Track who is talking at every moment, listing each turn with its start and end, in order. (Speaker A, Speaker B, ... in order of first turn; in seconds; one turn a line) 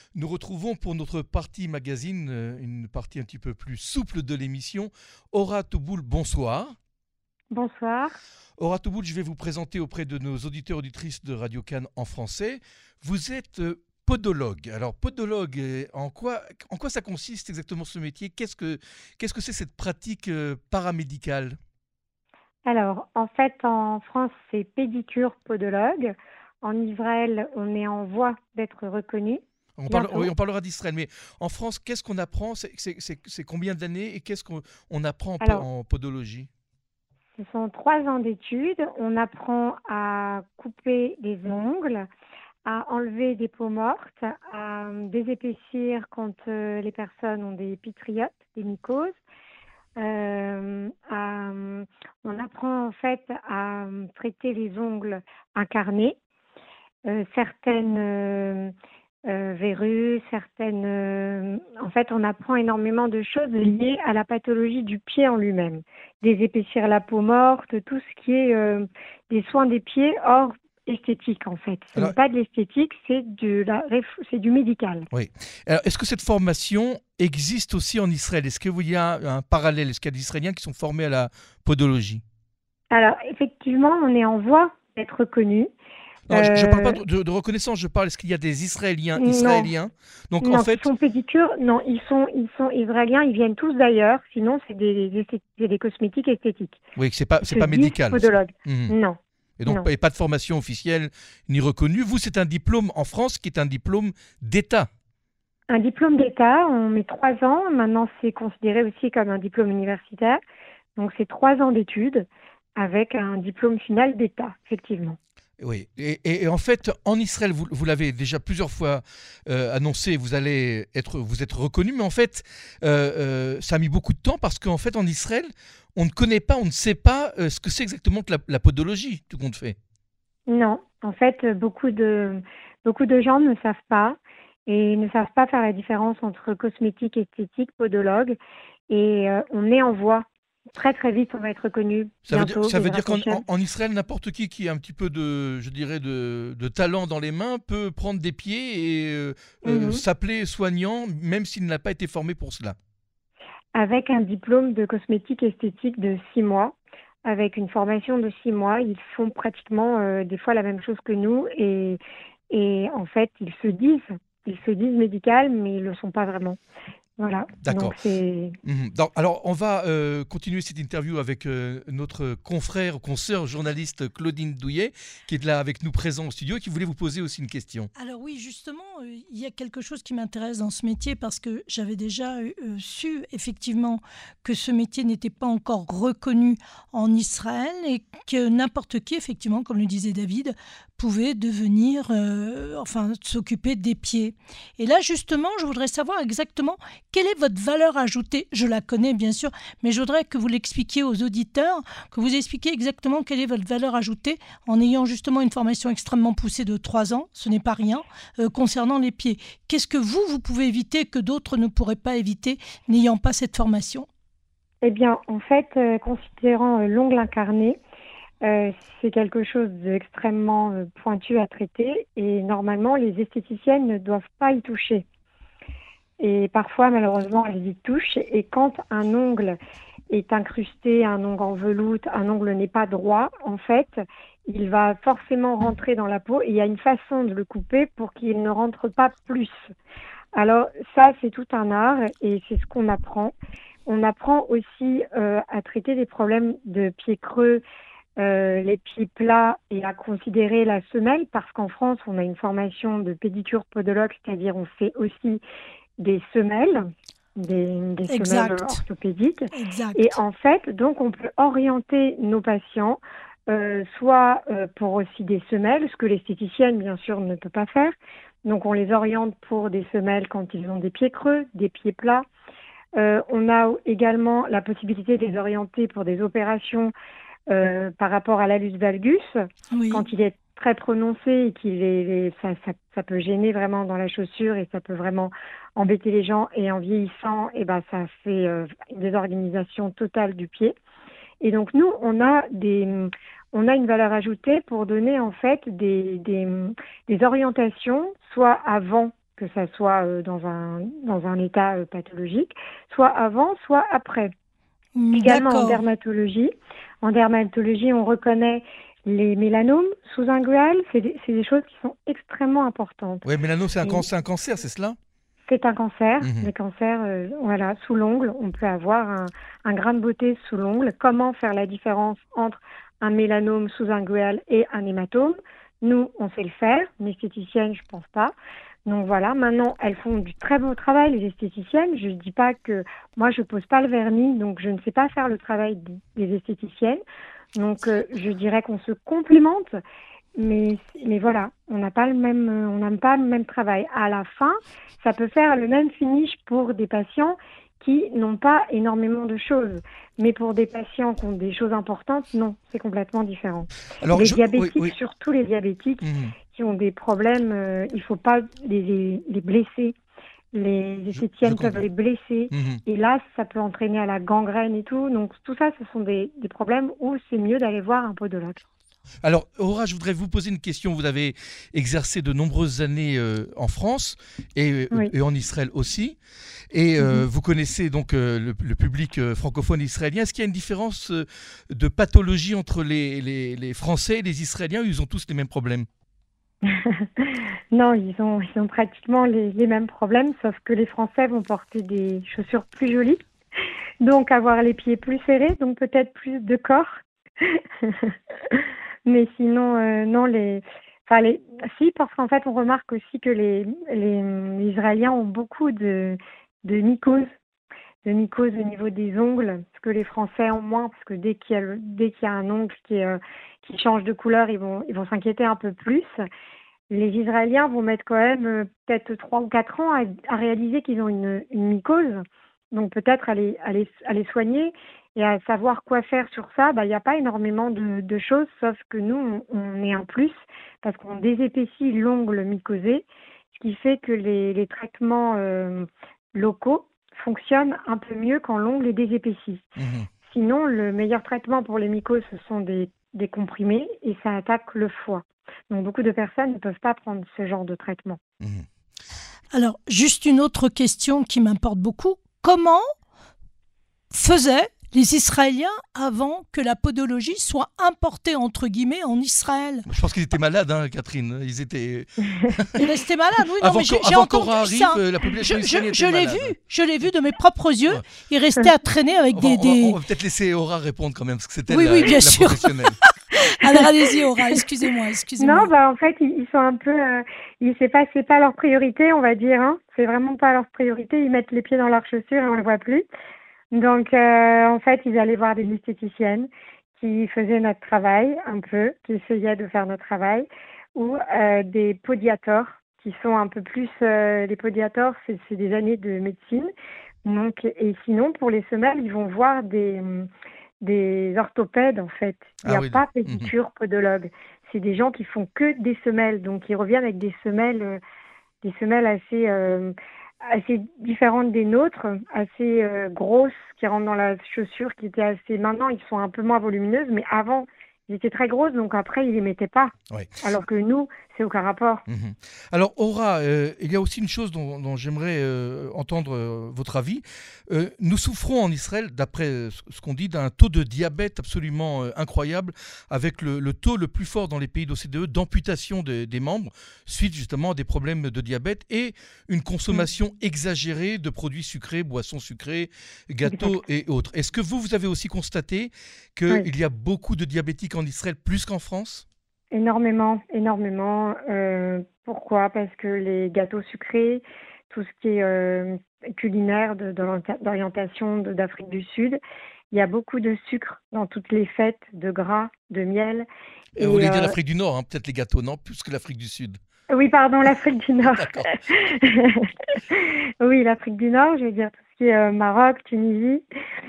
Speaker A: 0.1-6.8
Speaker B: 7.5-8.2
Speaker A: 8.6-21.6
Speaker B: 22.6-30.3
Speaker A: 29.8-36.5
Speaker B: 35.4-35.7
Speaker B: 37.4-42.0
Speaker B: 42.6-49.2
Speaker B: 50.0-56.2
Speaker B: 57.1-58.7
Speaker B: 59.3-75.1
Speaker A: 75.1-82.2
Speaker B: 82.9-85.7
Speaker A: 86.3-90.9
Speaker B: 86.3-87.0
Speaker B: 89.2-89.7
Speaker B: 90.4-96.8
Speaker A: 97.0-98.9
Speaker B: 97.5-99.9
Speaker A: 99.6-104.9
Speaker B: 105.7-110.4
Speaker B: 111.0-115.2
Speaker A: 115.6-129.8
Speaker B: 130.5-138.4
Speaker B: 138.9-143.4
Speaker A: 142.3-152.8
Speaker B: 149.6-150.0
Speaker B: 153.8-166.6
Speaker B: 167.2-168.6
Speaker A: 167.6-167.9
Speaker A: 168.7-177.9
Speaker C: 178.0-214.1
Speaker B: 214.8-217.8
Speaker B: 218.4-225.1
Speaker B: 226.2-229.6
Speaker B: 230.1-239.6
Speaker B: 240.3-243.3
Speaker B: 243.9-247.6
Speaker B: 248.2-255.4
Speaker B: 256.0-256.8
Speaker B: 257.4-267.9
Speaker C: 258.1-258.8
Speaker C: 259.5-260.2
Speaker B: 268.4-272.3
Speaker B: 273.0-276.9
Speaker B: 277.5-279.3
Speaker C: 279.7-280.1
Speaker B: 279.9-290.8
Speaker B: 291.4-304.3
Speaker C: 304.9-305.8
Speaker B: 305.1-306.5
Speaker B: 307.0-313.2
Speaker A: 313.2-315.0
Speaker B: 315.5-328.3
Speaker A: 316.2-316.5
Speaker B: 328.9-337.0
Speaker B: 337.6-339.8
Speaker B: 340.4-359.9
Speaker A: 354.0-354.9
Speaker A: 356.0-356.3
Speaker B: 360.5-368.6
Speaker A: 361.1-361.8
Speaker A: 362.5-362.8
Speaker A: 369.2-376.2
Speaker A: 376.7-385.9
Speaker B: 377.0-377.3
Speaker B: 386.7-393.2
Speaker B: 394.0-396.9
Speaker B: 397.4-398.1
Speaker B: 399.1-407.3
Speaker B: 408.1-416.1
Speaker B: 416.9-422.2
Speaker B: 422.7-439.7
Speaker A: 439.8-440.1
Speaker B: 440.3-448.2
Speaker A: 448.4-448.6
Speaker C: 449.5-452.8
Speaker C: 454.1-459.9
Speaker A: 459.9-462.9
Speaker C: 462.8-470.0
Speaker A: 463.6-466.5
Speaker A: 469.3-473.0
Speaker C: 471.7-475.7
Speaker B: 475.4-483.1
Speaker B: 483.7-496.7
Speaker B: 497.2-500.3
Speaker B: 500.8-508.0
Speaker A: 502.6-503.5
Speaker B: 508.6-522.0
Speaker A: 522.1-549.2
Speaker B: 543.5-543.8
Speaker B: 549.7-559.4
Speaker B: 559.9-563.5
Speaker A: 564.0-566.8
Speaker B: 564.0-564.5
Speaker B: 567.1-573.6
Speaker A: 568.3-568.8